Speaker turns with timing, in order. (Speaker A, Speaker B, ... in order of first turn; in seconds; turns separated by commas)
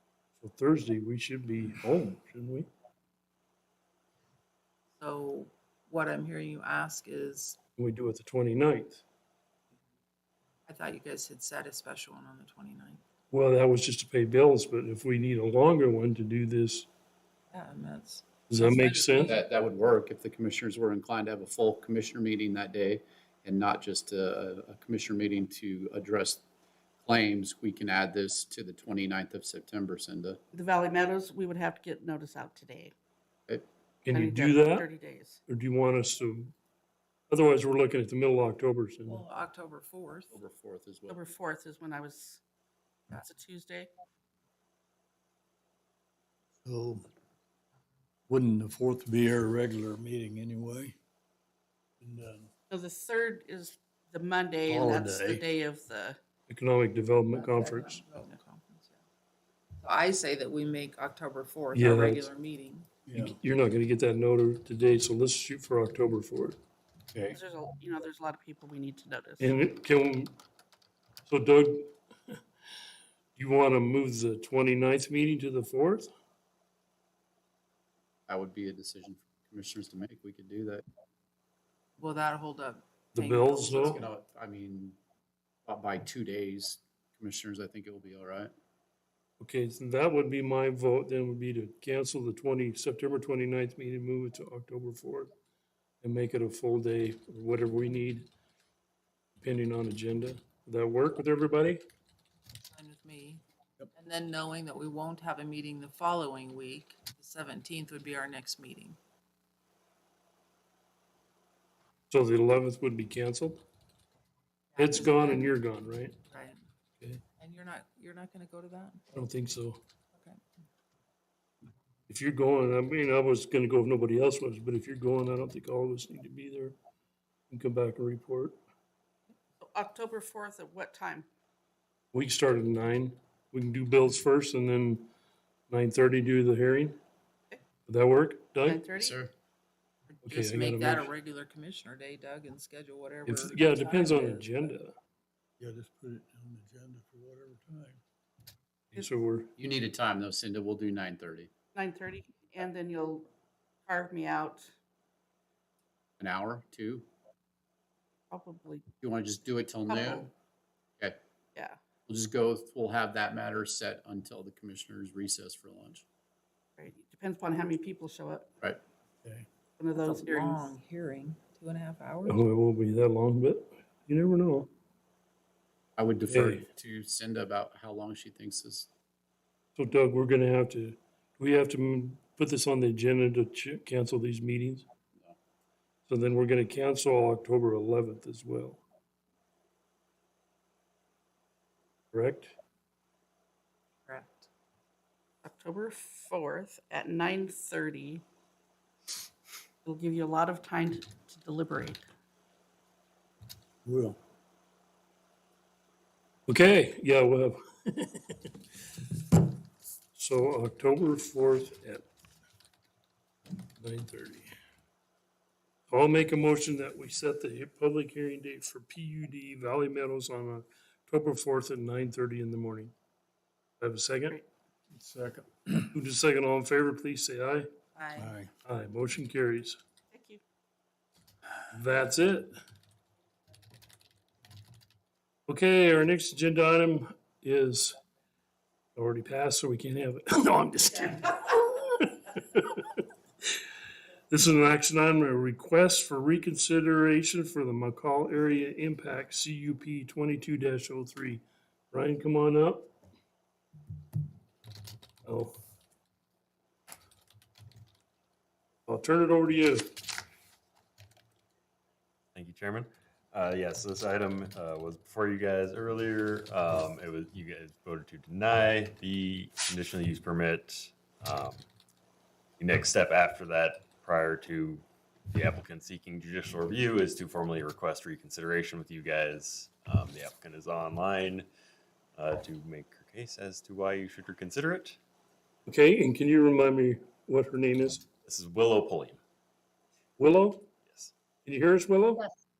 Speaker A: 0.4-2.7, Speaker B: 5.0-7.6, Speaker A: 7.8-9.0, Speaker B: 10.7-13.0, Speaker A: 13.3-16.9, Speaker B: 17.5-19.4, Speaker A: 18.5-19.4, Speaker C: 19.2-26.4, Speaker C: 27.0-30.4, Speaker D: 30.5-32.9, Speaker A: 34.0-34.9, Speaker D: 34.1-35.4, Speaker A: 35.5-36.5, Speaker A: 37.3-39.2, Speaker B: 39.0-40.3, Speaker C: 40.3-41.2, Speaker D: 41.1-42.4, Speaker D: 43.2-43.9, Speaker E: 46.6-47.1, Speaker E: 48.3-51.0, Speaker E: 52.0-52.5, Speaker D: 52.7-56.2, Speaker E: 54.6-55.5, Speaker A: 56.5-58.0, Speaker B: 57.3-59.0, Speaker B: 59.8-62.9, Speaker A: 61.7-62.3, Speaker E: 63.1-63.4, Speaker A: 63.1-66.6, Speaker D: 67.3-69.5, Speaker A: 69.4-70.3, Speaker A: 71.2-71.9, Speaker A: 73.3-76.1, Speaker C: 78.3-80.8, Speaker B: 82.0-84.1, Speaker A: 83.1-84.0, Speaker C: 83.7-85.0, Speaker C: 85.7-88.5, Speaker A: 89.4-95.3, Speaker A: 96.0-98.3, Speaker A: 99.4-101.8, Speaker B: 102.6-103.4, Speaker B: 103.9-109.0, Speaker A: 112.1-113.6, Speaker B: 114.7-115.5, Speaker A: 114.8-116.1, Speaker B: 116.3-116.6, Speaker B: 117.4-119.0, Speaker A: 119.1-119.8, Speaker B: 120.1-120.4, Speaker A: 122.1-126.7, Speaker A: 127.5-128.6, Speaker D: 129.6-131.3, Speaker A: 132.1-135.1, Speaker A: 135.7-137.0, Speaker A: 137.9-138.8, Speaker D: 138.6-139.1, Speaker C: 139.0-139.3, Speaker B: 140.1-144.5, Speaker A: 140.2-141.1, Speaker A: 143.2-144.9, Speaker E: 145.6-148.0, Speaker A: 148.9-149.5, Speaker C: 149.6-151.5, Speaker D: 151.7-153.3, Speaker D: 153.9-154.7, Speaker C: 156.2-157.1, Speaker D: 158.3-158.9, Speaker C: 159.0-160.3, Speaker D: 159.9-160.3, Speaker C: 162.1-166.0, Speaker D: 166.8-168.5, Speaker D: 169.8-170.7, Speaker B: 169.9-172.4, Speaker A: 172.2-174.7, Speaker C: 176.0-178.9, Speaker A: 176.3-176.6, Speaker A: 179.8-184.8, Speaker A: 186.1-188.8, Speaker A: 192.1-192.5, Speaker B: 194.1-194.5, Speaker D: 195.4-198.2, Speaker D: 199.8-202.0, Speaker E: 203.8-204.2, Speaker A: 206.5-208.4, Speaker A: 210.1-212.0, Speaker A: 213.8-214.5, Speaker A: 215.9-222.9, Speaker A: 223.8-224.4, Speaker E: 224.9-225.9, Speaker A: 225.9-227.7, Speaker B: 227.9-228.3, Speaker E: 228.1-228.5, Speaker A: 228.7-229.8, Speaker D: 230.1-230.4, Speaker A: 231.7-232.5, Speaker A: 235.5-237.9, Speaker A: 238.9-243.0, Speaker A: 244.3-252.9, Speaker A: 255.2-255.5, Speaker A: 258.9-259.9, Speaker F: 262.3-271.6, Speaker F: 272.6-281.5, Speaker F: 282.1-285.0, Speaker A: 285.6-288.0, Speaker F: 288.2-289.2, Speaker A: 290.2-290.7, Speaker A: 291.4-292.2